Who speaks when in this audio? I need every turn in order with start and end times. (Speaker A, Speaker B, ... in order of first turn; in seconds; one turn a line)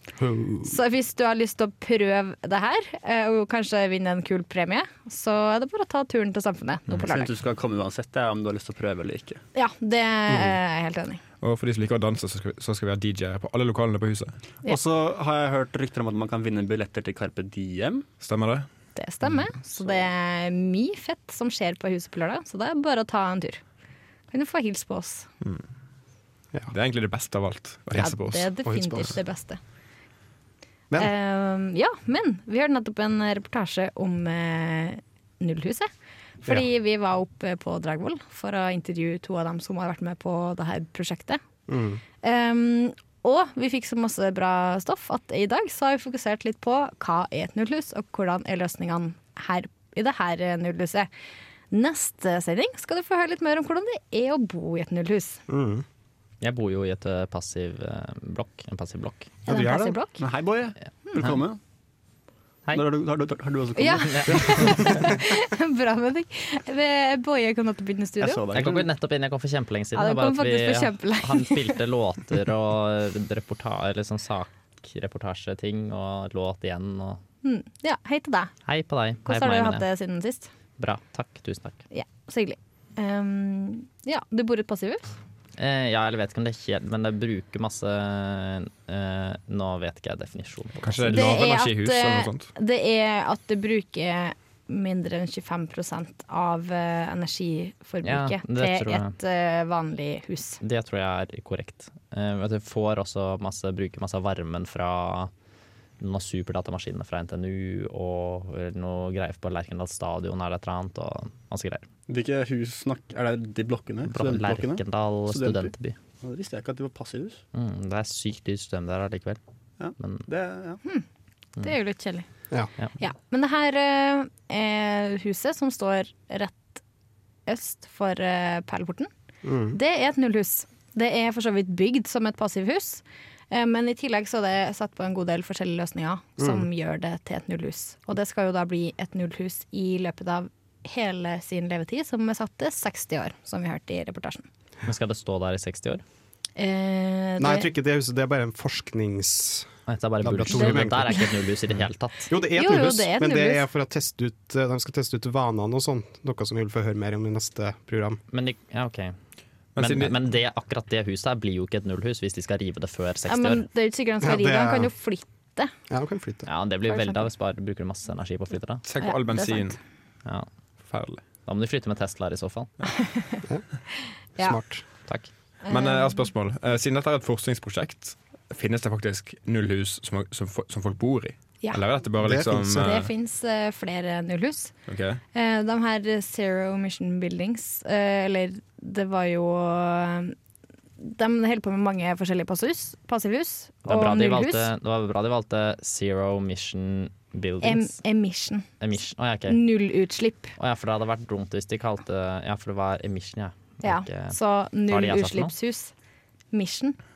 Speaker A: 0.2-0.8
Speaker B: 0.6-7.3
Speaker C: 6.9-9.4
Speaker B: 9.6-11.2
Speaker D: 11.4-14.4
Speaker C: 14.7-18.1
Speaker D: 18.2-18.7
Speaker B: 19.0-23.6
Speaker B: 24.3-25.3
Speaker D: 26.7-28.5
Speaker B: 28.0-29.6
Speaker A: 28.7-29.1
Speaker B: 31.0-35.9
Speaker B: 36.4-41.4
Speaker A: 41.7-42.0
Speaker B: 42.2-51.1
Speaker B: 51.7-55.4
Speaker A: 55.5-55.8
Speaker E: 56.4-59.3
Speaker A: 59.5-60.0
Speaker B: 59.5-60.2
Speaker C: 60.2-61.6
Speaker C: 62.7-65.1
Speaker B: 63.8-68.4
Speaker E: 64.2-64.9
Speaker C: 68.2-68.9
Speaker E: 68.5-77.2
Speaker B: 70.0-71.8
Speaker B: 77.4-78.5
Speaker E: 78.7-79.8
Speaker B: 79.2-80.5
Speaker E: 80.8-81.8
Speaker B: 81.9-85.1
Speaker E: 85.6-91.3
Speaker D: 90.8-92.5
Speaker B: 91.1-100.6
Speaker E: 98.0-99.2
Speaker E: 100.6-105.3
Speaker E: 106.0-111.9
Speaker C: 112.1-117.4
Speaker E: 114.1-116.0
Speaker E: 117.5-119.4
Speaker C: 119.8-120.8
Speaker E: 120.0-120.2
Speaker B: 121.6-122.3
Speaker B: 123.0-126.8
Speaker B: 127.5-129.1
Speaker A: 129.4-129.8
Speaker B: 129.7-144.5
Speaker A: 136.4-136.7
Speaker E: 144.9-146.0
Speaker B: 146.6-147.7
Speaker A: 147.4-149.7
Speaker E: 149.9-152.3
Speaker A: 150.2-151.3
Speaker B: 150.5-151.2
Speaker A: 152.3-158.2
Speaker B: 152.6-153.7
Speaker E: 158.3-159.2
Speaker D: 159.8-160.2
Speaker E: 159.8-163.7
Speaker B: 163.3-165.7
Speaker A: 164.2-164.9
Speaker A: 165.9-166.5
Speaker E: 166.5-168.8
Speaker B: 166.9-167.3
Speaker D: 168.8-169.8
Speaker B: 169.0-169.8
Speaker D: 170.9-171.2
Speaker E: 171.5-172.7
Speaker B: 173.2-173.4
Speaker A: 174.4-174.8
Speaker B: 175.7-176.2
Speaker D: 175.7-183.1
Speaker A: 182.2-182.9
Speaker B: 182.8-184.7
Speaker D: 184.9-185.2
Speaker B: 185.3-190.4
Speaker B: 191.0-194.7
Speaker E: 193.8-198.0
Speaker B: 197.6-198.7
Speaker E: 198.8-199.6
Speaker B: 199.5-200.5
Speaker E: 200.6-205.5
Speaker B: 203.8-205.9
Speaker B: 206.5-207.0